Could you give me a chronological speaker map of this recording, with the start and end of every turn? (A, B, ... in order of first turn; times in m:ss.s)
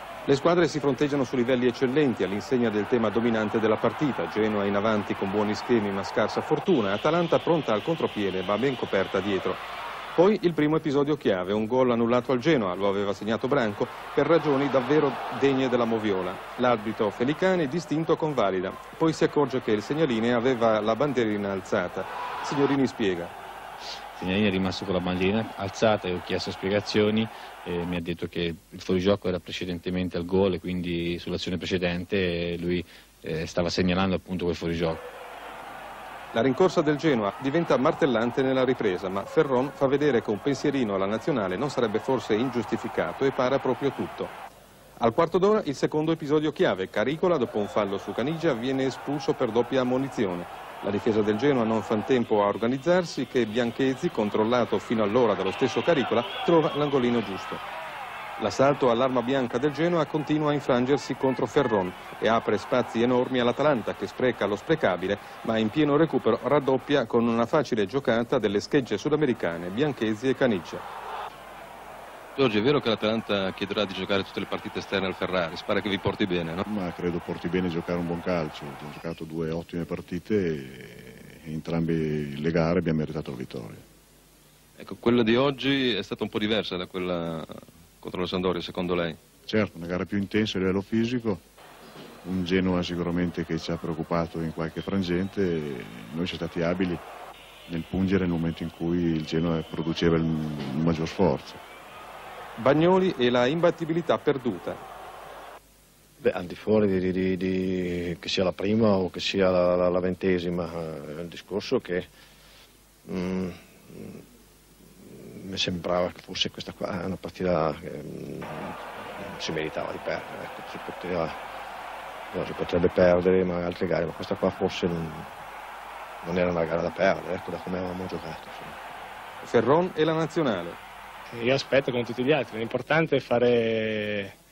0:00.3-0:09.6 A
0:10.2-0:23.3 A
0:24.2-0:35.0 B
0:36.3-0:44.3 A
0:45.0-0:57.6 A
0:58.4-1:10.8 A
1:12.4-1:16.6 C
1:16.7-1:23.8 D
1:24.8-1:29.2 C
1:29.5-1:31.4 D
1:32.2-1:37.0 D
1:37.7-1:41.6 D
1:42.6-1:44.8 A
1:46.2-1:52.1 E
1:53.1-1:54.2 E
1:55.1-2:01.3 E
2:02.3-2:05.3 E
2:06.2-2:08.8 E
2:09.4-2:10.8 A
2:11.3-2:14.3 F